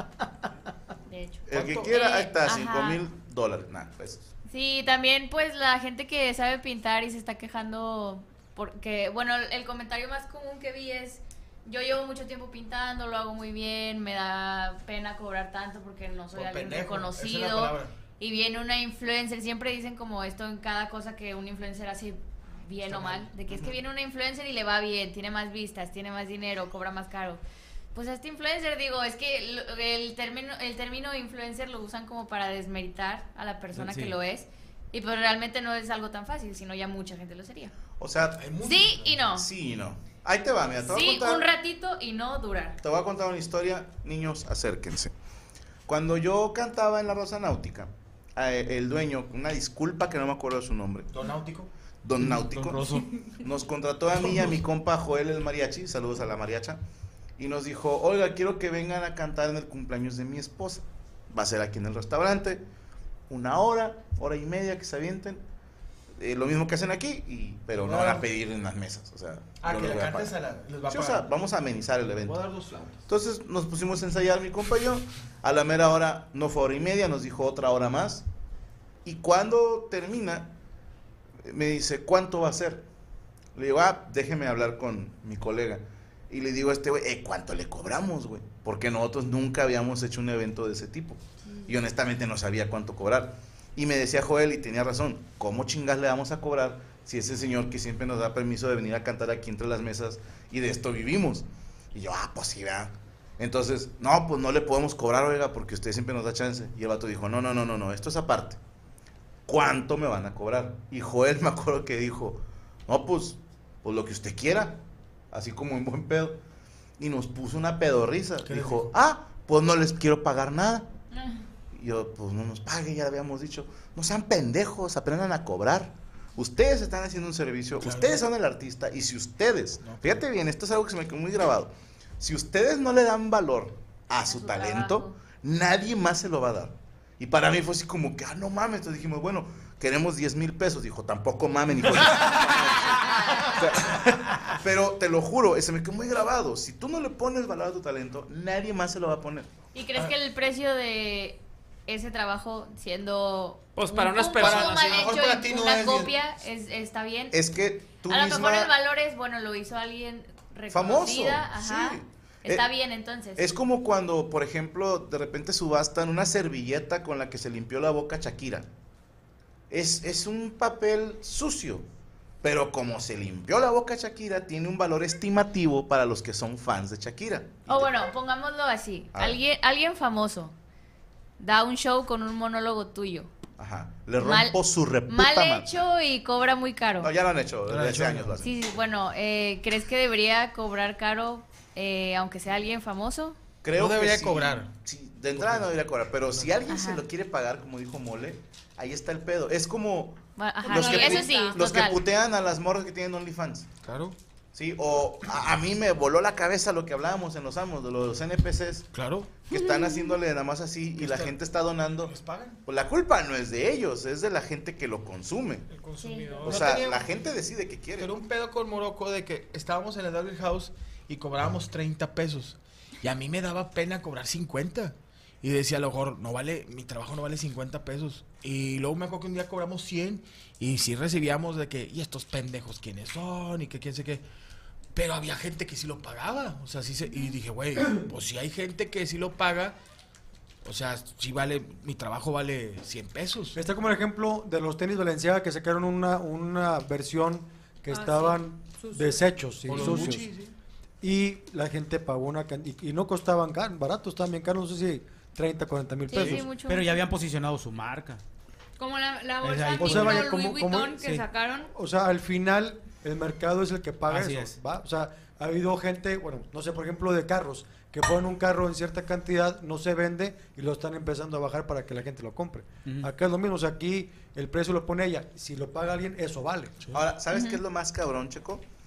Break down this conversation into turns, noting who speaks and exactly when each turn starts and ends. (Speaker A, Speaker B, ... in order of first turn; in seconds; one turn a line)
Speaker A: 1.1-3.0
Speaker B: 1.5-4.2
Speaker C: 1.5-1.9
Speaker A: 4.5-27.4
Speaker C: 16.3-17.9
Speaker C: 22.8-23.7
Speaker A: 27.9-37.7
Speaker D: 33.7-34.1
Speaker B: 38.0-38.4
Speaker C: 38.4-39.2
Speaker A: 38.6-39.5
Speaker B: 39.3-41.5
Speaker A: 40.8-42.8
Speaker B: 42.8-45.1
Speaker B: 45.9-51.1
Speaker C: 51.1-51.7
Speaker B: 52.0-56.8
Speaker C: 54.1-54.6
Speaker B: 57.4-62.6
Speaker B: 63.3-65.4
Speaker B: 66.2-70.3
Speaker C: 67.8-68.3
Speaker C: 69.6-71.3
Speaker B: 70.9-72.4
Speaker C: 72.2-73.0
Speaker B: 73.1-78.2
Speaker B: 79.0-80.5
Speaker B: 81.4-82.8
Speaker B: 83.5-108.6
Speaker B: 109.5-116.4
Speaker B: 117.0-120.9
Speaker C: 118.4-118.9
Speaker E: 121.1-121.4
Speaker B: 121.7-149.5
Speaker C: 127.8-128.2
Speaker C: 129.8-130.2
Speaker A: 134.3-135.2
Speaker A: 142.9-143.9
Speaker A: 149.7-157.3
Speaker F: 153.8-155.1
Speaker C: 154.4-156.1
Speaker B: 157.3-158.8
Speaker A: 158.1-163.5
Speaker B: 160.7-162.7
Speaker B: 163.4-168.7
Speaker B: 169.7-171.8
Speaker B: 172.4-178.1
Speaker A: 177.7-180.5
Speaker B: 179.1-179.4
Speaker A: 181.4-183.3
Speaker B: 183.6-185.9
Speaker A: 184.2-187.1
Speaker B: 187.0-188.8
Speaker C: 187.7-188.4
Speaker A: 188.4-193.4
Speaker B: 193.6-203.7
Speaker C: 193.7-194.7
Speaker C: 195.4-195.7
Speaker A: 196.7-197.0
Speaker A: 200.4-202.0
Speaker E: 200.6-201.6
Speaker C: 203.8-204.2
Speaker B: 204.5-208.9
Speaker C: 208.9-209.4
Speaker B: 209.5-215.7
Speaker A: 209.5-210.2
Speaker C: 211.0-211.3
Speaker C: 212.0-212.6
Speaker F: 215.7-216.8
Speaker A: 216.0-216.4
Speaker B: 216.4-218.2
Speaker C: 216.4-217.1
Speaker C: 218.0-234.2
Speaker C: 234.9-239.8
Speaker C: 240.6-243.6
Speaker G: 243.6-250.3
Speaker E: 247.9-249.7
Speaker C: 249.7-250.5
Speaker G: 251.0-256.5
Speaker A: 256.1-257.0
Speaker D: 256.2-258.2
Speaker E: 258.8-261.7
Speaker D: 259.4-260.4
Speaker G: 259.8-276.8
Speaker D: 264.1-264.6
Speaker D: 272.9-273.1
Speaker B: 276.9-278.6
Speaker A: 277.3-277.6